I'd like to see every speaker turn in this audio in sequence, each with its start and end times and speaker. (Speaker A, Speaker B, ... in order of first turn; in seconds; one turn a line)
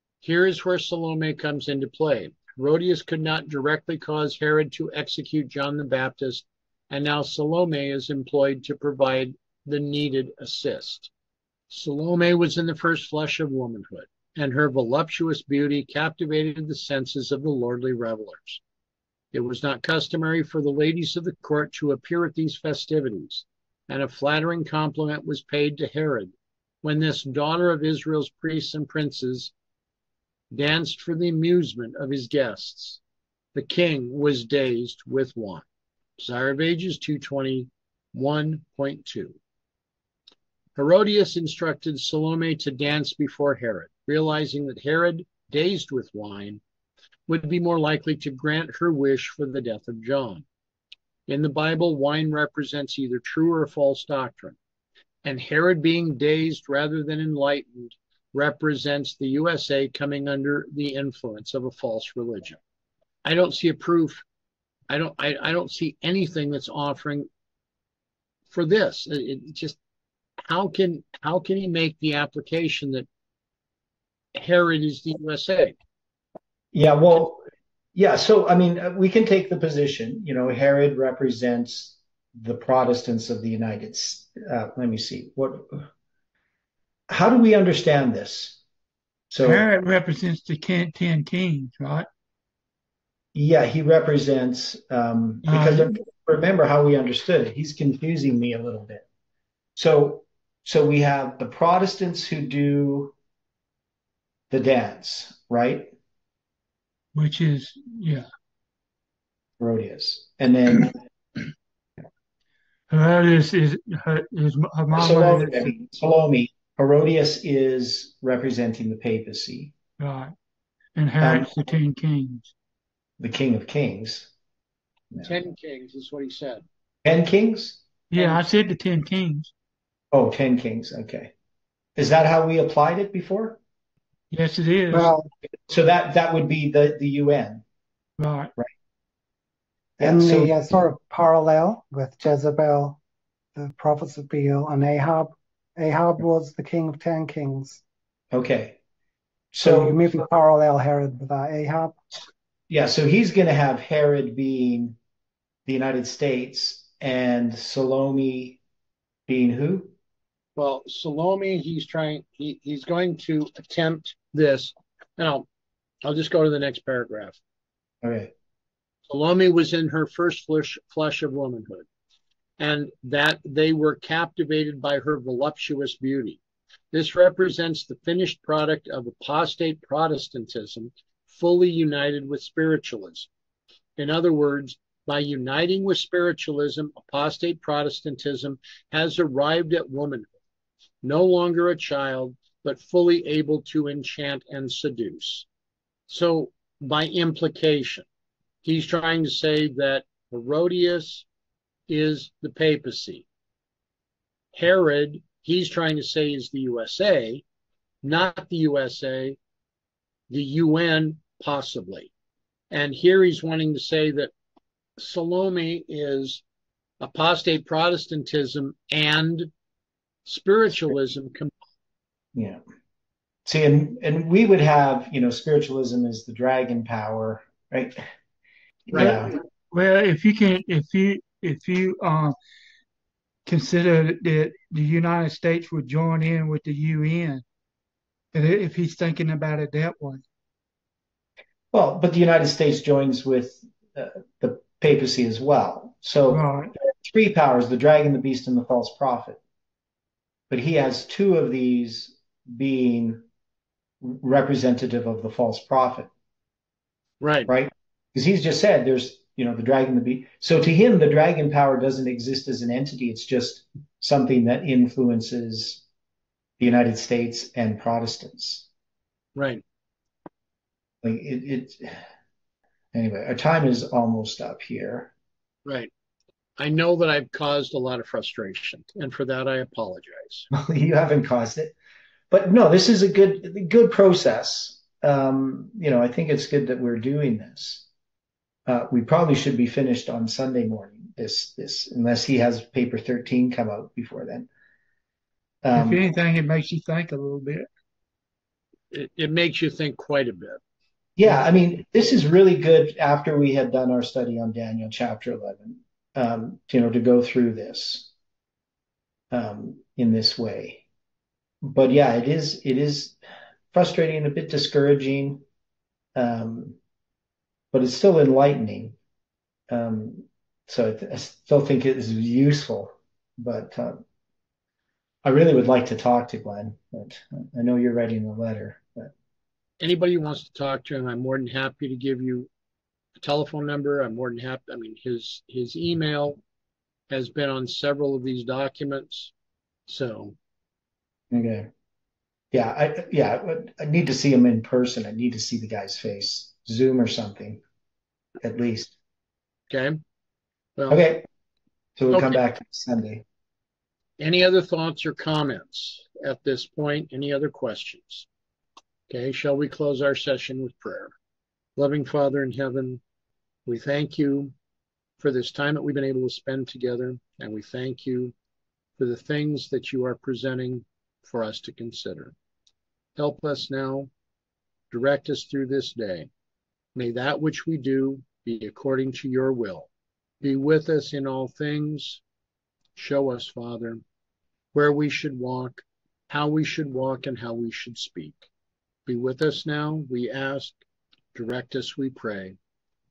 Speaker A: 0.2-11.1
Speaker A: 11.7-18.6
Speaker A: 19.3-29.5
Speaker A: 30.5-33.0
Speaker A: 33.5-35.6
Speaker A: 36.2-39.4
Speaker A: 40.8-46.6
Speaker A: 47.3-50.5
Speaker A: 51.3-54.6
Speaker A: 55.2-62.6
Speaker A: 63.2-64.2
Speaker A: 64.9-67.3
Speaker A: 68.5-69.8
Speaker A: 70.5-73.1
Speaker A: 74.3-75.8
Speaker B: 76.7-77.4
Speaker B: 78.0-85.9
Speaker B: 87.1-88.6
Speaker B: 89.3-89.6
Speaker C: 89.4-92.1
Speaker B: 93.3-99.0
Speaker C: 95.5-96.0
Speaker B: 99.8-103.1
Speaker B: 104.5-105.9
Speaker C: 107.2-108.2
Speaker B: 109.6-111.0
Speaker C: 112.9-115.7
Speaker B: 114.9-119.7
Speaker C: 120.0-120.3
Speaker C: 121.0-122.5
Speaker B: 121.2-121.5
Speaker B: 123.2-124.3
Speaker A: 125.2-126.6
Speaker B: 127.0-127.8
Speaker C: 128.1-129.5
Speaker B: 130.1-131.3
Speaker B: 132.0-133.6
Speaker C: 134.3-135.2
Speaker D: 134.9-135.2
Speaker B: 135.7-137.6
Speaker C: 138.2-138.5
Speaker B: 140.0-140.5
Speaker D: 140.0-143.0
Speaker D: 143.6-147.8
Speaker B: 148.3-148.8
Speaker B: 149.5-150.2
Speaker D: 149.6-152.0
Speaker B: 152.7-155.0
Speaker B: 155.7-158.6
Speaker B: 159.3-159.9
Speaker A: 160.6-165.5
Speaker A: 166.0-167.4
Speaker B: 168.0-168.3
Speaker A: 169.1-171.9
Speaker A: 172.6-176.4
Speaker A: 176.9-183.3
Speaker A: 184.0-190.3
Speaker A: 191.0-195.5
Speaker A: 196.1-198.1
Speaker A: 198.6-201.3
Speaker A: 201.9-203.3
Speaker A: 204.5-207.4
Speaker A: 208.0-209.4
Speaker A: 210.3-212.1
Speaker A: 212.7-214.3
Speaker A: 215.0-216.4
Speaker A: 217.0-219.5
Speaker A: 220.3-221.5
Speaker B: 222.3-222.6
Speaker B: 223.5-228.0
Speaker B: 228.9-229.3
Speaker C: 228.9-232.4
Speaker C: 233.5-237.4
Speaker C: 238.3-240.2
Speaker B: 241.7-249.4
Speaker C: 246.3-246.7
Speaker B: 250.5-253.2
Speaker B: 254.0-256.1
Speaker A: 257.2-257.5
Speaker B: 257.5-265.8
Speaker B: 266.6-268.7
Speaker A: 269.4-269.6
Speaker B: 271.0-272.0
Speaker B: 272.9-275.1
Speaker A: 275.6-275.9
Speaker A: 276.6-280.5
Speaker B: 280.5-281.7
Speaker B: 282.3-287.9
Speaker B: 288.7-294.5
Speaker B: 295.6-296.0
Speaker C: 295.7-297.7
Speaker A: 298.9-300.6
Speaker B: 301.2-308.1
Speaker B: 309.3-310.8
Speaker B: 311.6-313.2
Speaker B: 313.7-315.4
Speaker B: 316.2-316.8
Speaker B: 317.7-319.0
Speaker B: 319.7-324.0
Speaker B: 325.2-329.1
Speaker A: 329.8-332.5
Speaker A: 333.2-336.4
Speaker A: 337.1-339.3
Speaker A: 339.9-340.4
Speaker B: 341.3-341.7
Speaker B: 342.5-347.6
Speaker B: 348.4-348.9
Speaker A: 349.7-350.0
Speaker A: 350.8-351.0
Speaker B: 350.9-351.2
Speaker B: 352.0-353.2
Speaker A: 352.1-352.4
Speaker A: 354.2-358.3
Speaker A: 359.1-361.1
Speaker A: 361.8-363.0
Speaker A: 363.7-364.5
Speaker A: 365.2-368.3
Speaker A: 369.0-372.4
Speaker A: 373.2-374.1
Speaker A: 374.9-376.3
Speaker A: 376.9-379.9
Speaker A: 380.4-382.2
Speaker A: 382.9-384.0
Speaker A: 384.7-388.5
Speaker A: 389.1-390.8
Speaker A: 391.3-392.6